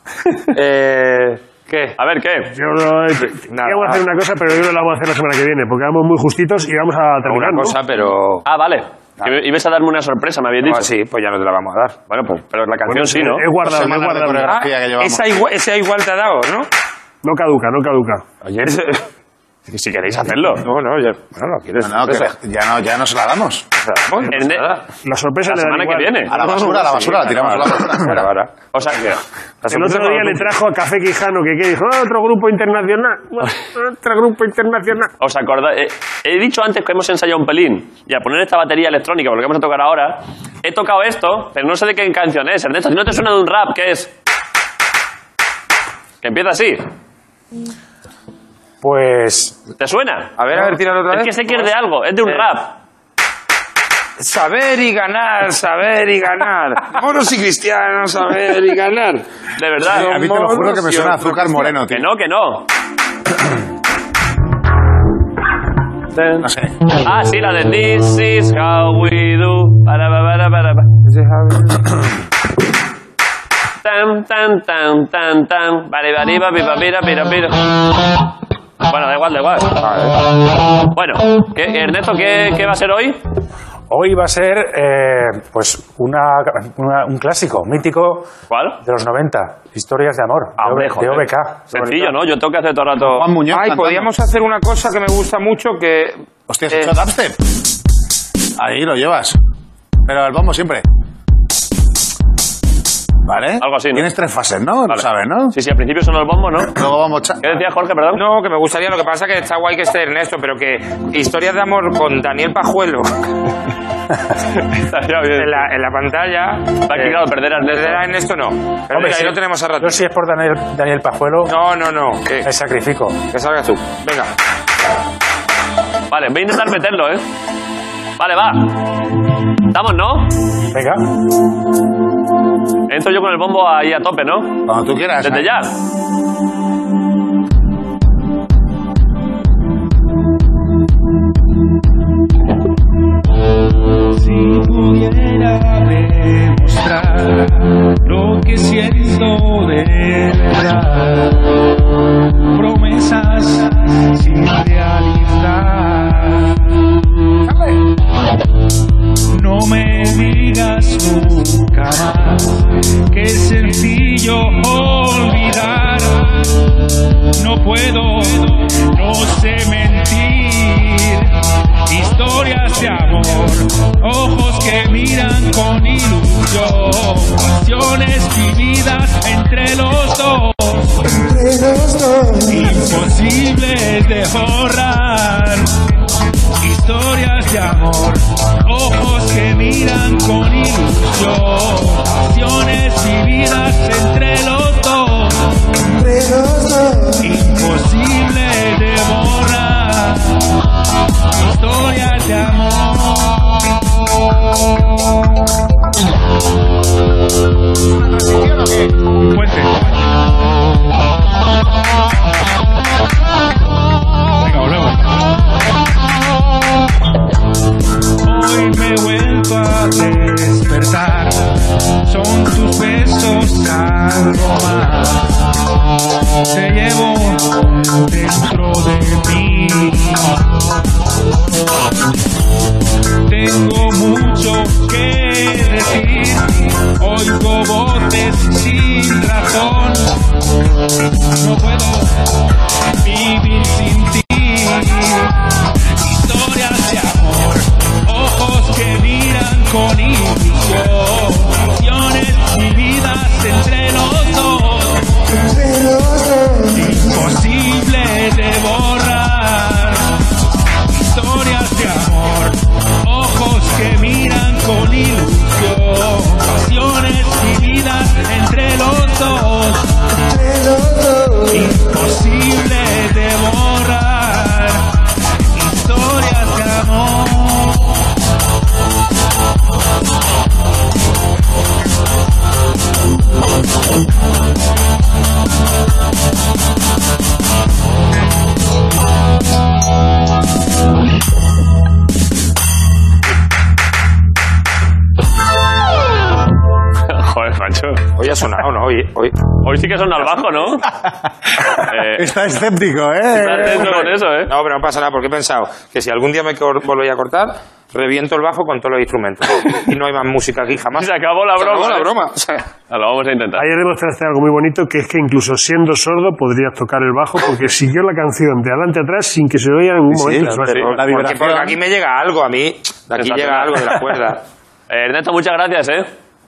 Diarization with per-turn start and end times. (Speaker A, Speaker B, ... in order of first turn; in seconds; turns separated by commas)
Speaker A: 0.5-1.9, Speaker B: 2.0-2.5, Speaker C: 2.5-7.8, Speaker A: 3.4-4.0, Speaker A: 7.2-8.5, Speaker B: 8.5-10.9, Speaker A: 10.6-12.0, Speaker B: 12.1-13.5, Speaker A: 12.9-16.7, Speaker C: 13.0-14.6, Speaker D: 13.6-15.4, Speaker C: 17.2-18.3, Speaker A: 18.4-19.1, Speaker B: 19.7-20.6, Speaker A: 20.0-22.3, Speaker D: 21.8-23.7, Speaker A: 23.8-24.8, Speaker B: 24.3-24.7, Speaker C: 25.0-26.3, Speaker B: 25.5-27.9, Speaker D: 26.3-28.3, Speaker A: 26.3-28.5, Speaker B: 28.7-29.2, Speaker A: 29.6-30.6, Speaker C: 29.7-35.1, Speaker B: 35.2-44.1, Speaker B: 46.2-46.9, Speaker E: 48.8-49.6, Speaker B: 49.8-50.4, Speaker A: 50.4-51.7, Speaker B: 51.1-52.8, Speaker A: 54.2-59.2, Speaker B: 59.6-60.1, Speaker A: 59.8-61.8, Speaker D: 59.9-62.0, Speaker B: 61.9-62.7, Speaker B: 66.1-66.5, Speaker D: 66.4-66.8, Speaker B: 67.0-70.9, Speaker A: 71.0-72.0, Speaker B: 73.8-77.7, Speaker B: 78.8-79.7, Speaker A: 79.8-80.3, Speaker B: 80.9-83.2, Speaker E: 83.9-88.3, Speaker B: 88.5-88.8, Speaker E: 88.8-91.9, Speaker B: 90.6-93.3, Speaker D: 93.0-94.1, Speaker A: 93.1-96.2, Speaker D: 96.5-97.4, Speaker D: 98.6-99.4, Speaker D: 100.1-100.8, Speaker D: 103.2-105.5, Speaker B: 103.6-104.1, Speaker B: 104.9-106.8, Speaker D: 106.7-107.4, Speaker B: 107.4-108.2, Speaker A: 108.1-113.1, Speaker B: 114.6-115.7, Speaker A: 115.3-120.0, Speaker B: 116.9-118.1, Speaker E: 118.9-121.6, Speaker A: 121.5-122.5, Speaker E: 122.4-123.2, Speaker A: 123.3-124.3, Speaker B: 126.1-127.2, Speaker B: 128.2-128.7, Speaker B: 129.7-130.3, Speaker E: 130.7-131.0, Speaker B: 132.9-134.6, Speaker D: 134.7-135.5, Speaker B: 135.2-135.7, Speaker F: 144.1-151.5, Speaker F: 152.5-156.7, Speaker D: 157.5-157.8, Speaker F: 159.3-166.6, Speaker F: 167.4-171.4, Speaker F: 171.9-181.2, Speaker F: 182.4-185.7, Speaker F: 186.6-195.5, Speaker F: 197.2-200.4, Speaker F: 201.4-203.6, Speaker D: 208.4-208.7, Speaker F: 209.2-209.7, Speaker F: 214.4-215.1, Speaker F: 218.2-225.3, Speaker F: 226.5-230.4, Speaker F: 233.3-240.1, Speaker F: 241.4-242.2, Speaker F: 243.0-245.3, Speaker F: 246.0-255.1, Speaker F: 256.7-260.1, Speaker F: 260.9-269.9, Speaker F: 271.5-274.9, Speaker F: 275.5-277.9, Speaker B: 297.1-298.0, Speaker A: 298.2-299.3, Speaker B: 299.6-300.9, Speaker B: 301.8-302.3, Speaker D: 301.9-304.2, Speaker B: 303.3-304.5, Speaker A: 303.6-312.7, Speaker B: 310.9-312.1, Speaker B: 312.9-313.7, Speaker C: 313.6-320.9, Speaker D: 320.1-321.8, Speaker A: 320.3-324.4, Speaker B: 323.2-324.0, Speaker B: 324.9-326.1